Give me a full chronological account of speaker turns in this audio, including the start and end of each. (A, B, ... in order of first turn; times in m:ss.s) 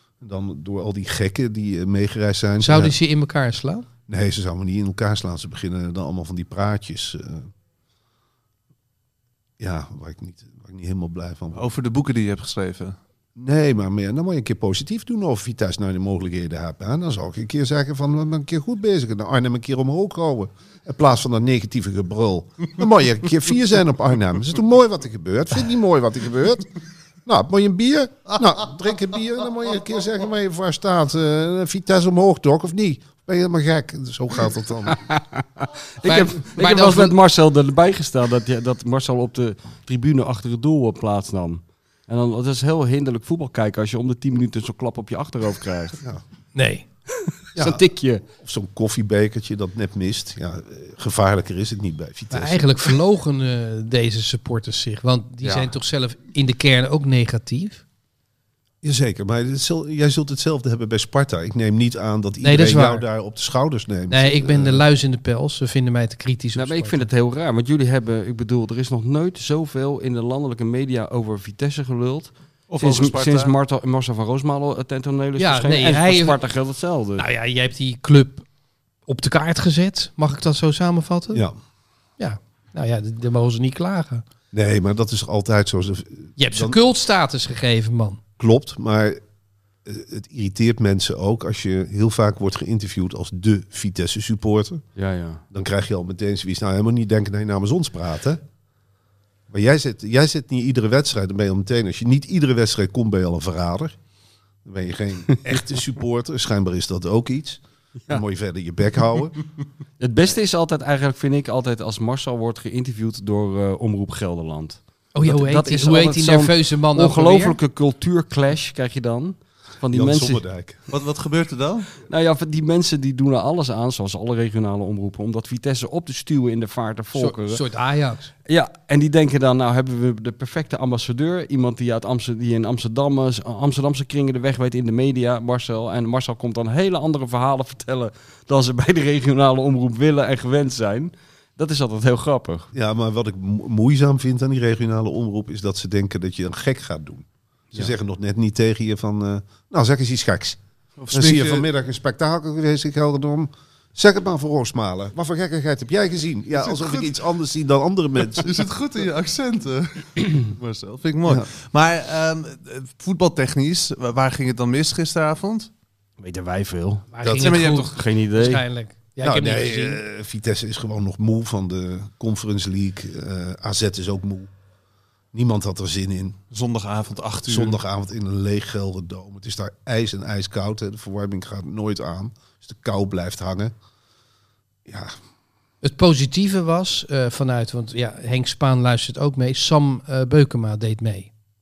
0:00.2-0:02.9 A
0:02.6-0:03.9 B
0:04.1-0:07.5 A
0:09.6-0:11.7 A
0:11.5-0:13.0 C
0:13.4-0:26.7 A
0:27.2-0:35.0 A
0:34.9-0:46.0 D
0:36.0-0:37.1 B
0:46.6-0:46.8 B
0:47.2-0:48.2 D
0:47.6-0:47.8 A
0:48.4-0:53.0 A
0:52.3-0:57.8 B
0:55.4-0:55.7 D
0:58.8-1:04.8 A
1:02.4-1:03.0 B
1:04.1-1:07.1 B
1:06.6-1:17.2 D
1:12.7-1:13.5 C
1:15.4-1:16.4 B
1:17.2-1:18.4 B
1:19.1-1:21.4 B
1:22.2-1:24.2 B
1:24.5-1:26.8 A
1:26.4-1:28.2 B
1:28.4-1:29.2 A
1:29.8-1:34.8 A
1:35.0-1:35.4 D
1:35.5-1:38.4 A
1:39.5-1:44.0 A
1:44.6-1:49.4 A
1:50.0-2:00.4 D
1:55.1-1:57.6 B
1:59.9-2:00.8 A
2:00.9-2:01.9 C
2:02.1-2:07.6 D
2:07.1-2:08.3 B
2:08.5-2:22.7 D
2:22.7-2:38.6 A
2:31.0-2:31.6 C
2:36.6-2:37.1 C
2:38.3-2:45.7 C
2:46.2-2:47.1 D
2:47.1-2:50.0 B
2:47.2-2:47.5 A
2:47.4-2:48.0 C
2:47.8-2:48.6 D
2:49.2-2:54.5 A
2:55.3-2:56.4 A
2:56.5-2:57.8 C
2:57.5-3:03.7 A
3:04.9-3:05.2 A
3:05.8-3:11.3 B